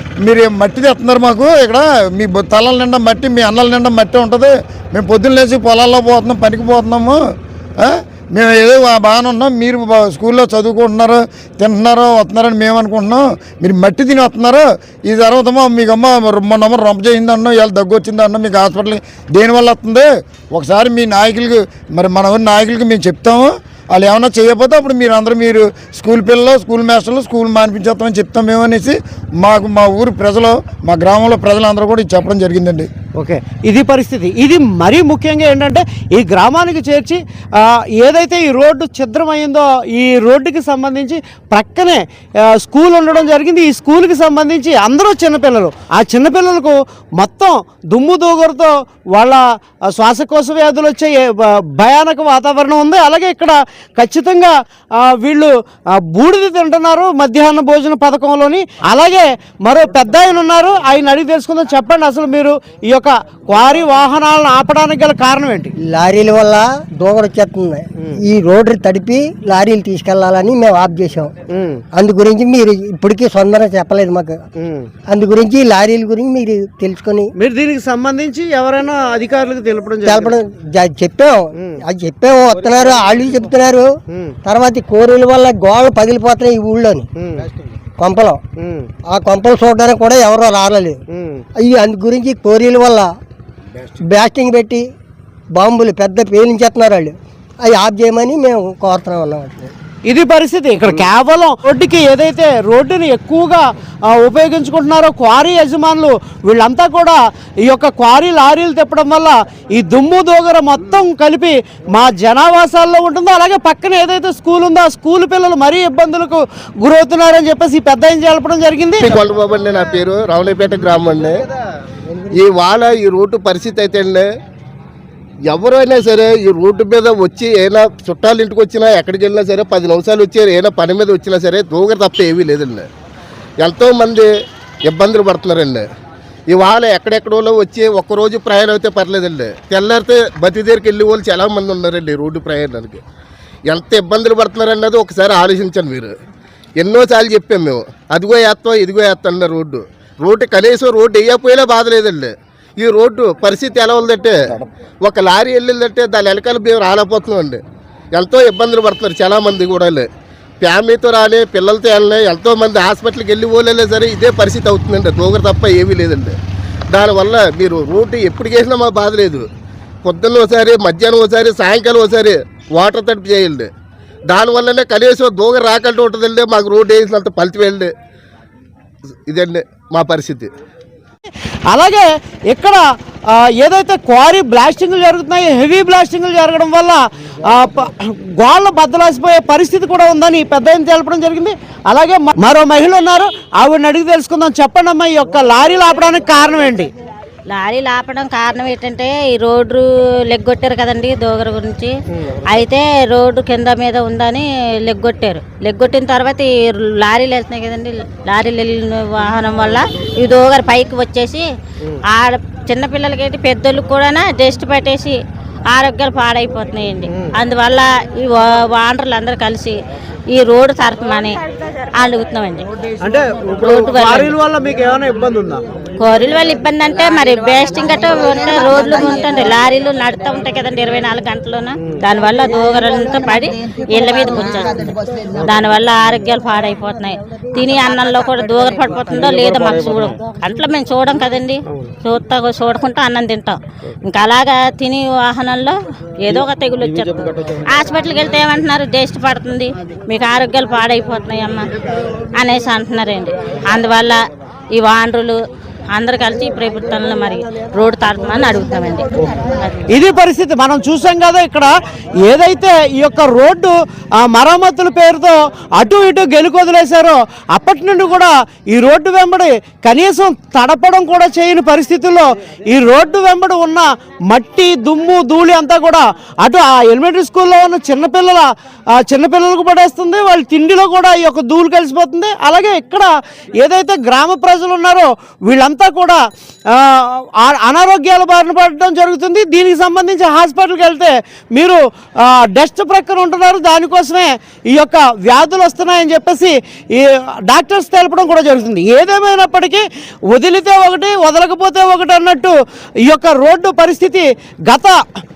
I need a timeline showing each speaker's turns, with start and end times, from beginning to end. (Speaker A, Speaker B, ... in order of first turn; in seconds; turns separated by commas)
Speaker A: 0.2-7.2, Speaker A: 7.8-32.9, Speaker B: 33.2-65.7, Speaker C: 65.8-71.3, Speaker B: 71.5-71.8, Speaker C: 71.9-74.4, Speaker B: 74.6-74.9, Speaker C: 75.1-77.3, Speaker B: 77.4-80.3, Speaker C: 80.0-83.9, Speaker B: 84.1-84.3, Speaker C: 84.4-87.1, Speaker B: 87.2-87.4, Speaker C: 88.0-88.4, Speaker B: 88.6-88.9, Speaker C: 89.1-91.0, Speaker B: 91.1-91.4, Speaker C: 91.5-93.1, Speaker C: 94.0-94.8, Speaker C: 95.5-99.7, Speaker B: 100.0-119.1, Speaker D: 119.0-121.5, Speaker C: 122.1-122.4, Speaker D: 122.3-124.3, Speaker D: 125.5-132.9, Speaker D: 133.6-134.3, Speaker D: 134.9-135.8, Speaker D: 136.5-143.0, Speaker D: 143.7-146.1, Speaker D: 146.8-157.6, Speaker D: 158.1-160.1, Speaker D: 160.6-166.4, Speaker D: 166.9-169.4, Speaker D: 170.0-173.7, Speaker D: 174.3-177.9, Speaker D: 179.3-180.5, Speaker B: 181.7-196.9, Speaker E: 197.5-201.9, Speaker E: 202.5-211.5, Speaker E: 212.1-215.2, Speaker E: 215.7-219.8, Speaker E: 220.3-221.4, Speaker E: 221.9-222.7, Speaker B: 223.0-225.6, Speaker E: 223.6-224.3, Speaker E: 226.0-251.7, Speaker E: 252.3-254.2, Speaker E: 254.7-255.4, Speaker E: 255.9-259.8, Speaker B: 259.9-305.0